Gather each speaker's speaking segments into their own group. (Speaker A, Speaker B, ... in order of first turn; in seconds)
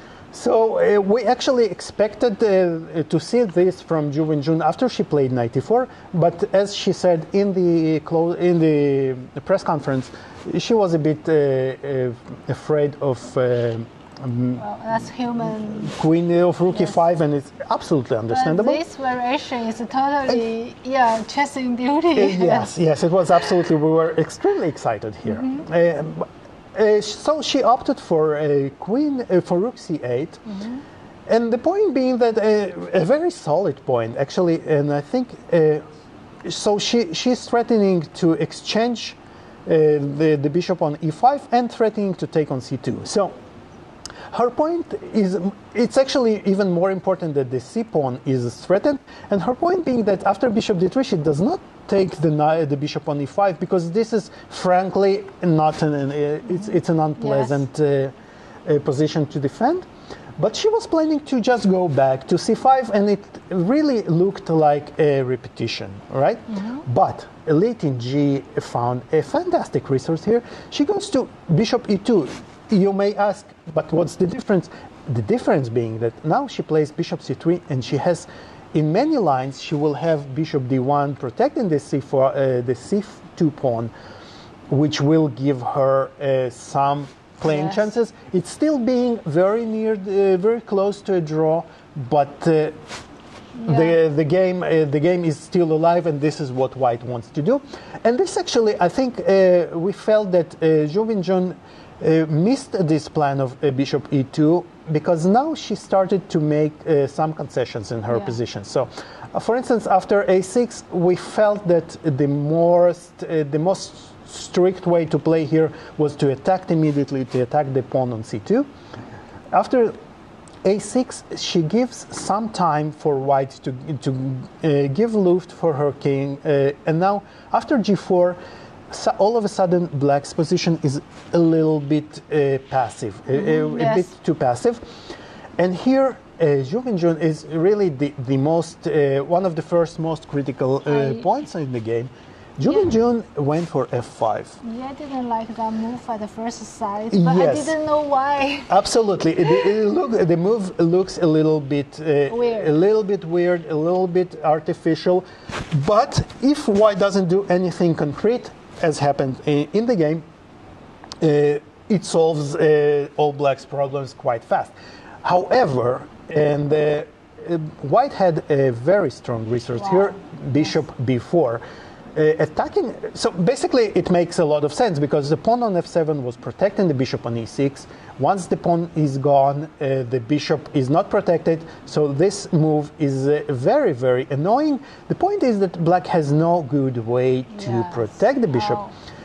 Speaker A: 0.3-18.8, 22.1-30.5, 31.3-35.8, 36.4-43.3, 44.3-58.1, 58.7-59.9, 60.4-83.9, 84.7-92.8, 93.6-118.7, 119.5-119.9, 120.6-128.4, 128.9-134.8, 135.6-144.6, 147.1-147.8, 148.7-160.2, 161.2-171.6, 172.2-188.9
Speaker B: 14.6-15.9, 16.7-17.0, 18.3-22.7, 25.2-25.7, 30.5-30.8, 56.5-57.6, 66.5-66.8, 87.5-87.8, 93.6-94.0, 108.1-108.4, 133.3-134.1, 140.9-141.3, 142.6-142.9, 144.6-148.7, 152.3-152.7, 169.8-170.7, 187.5-188.9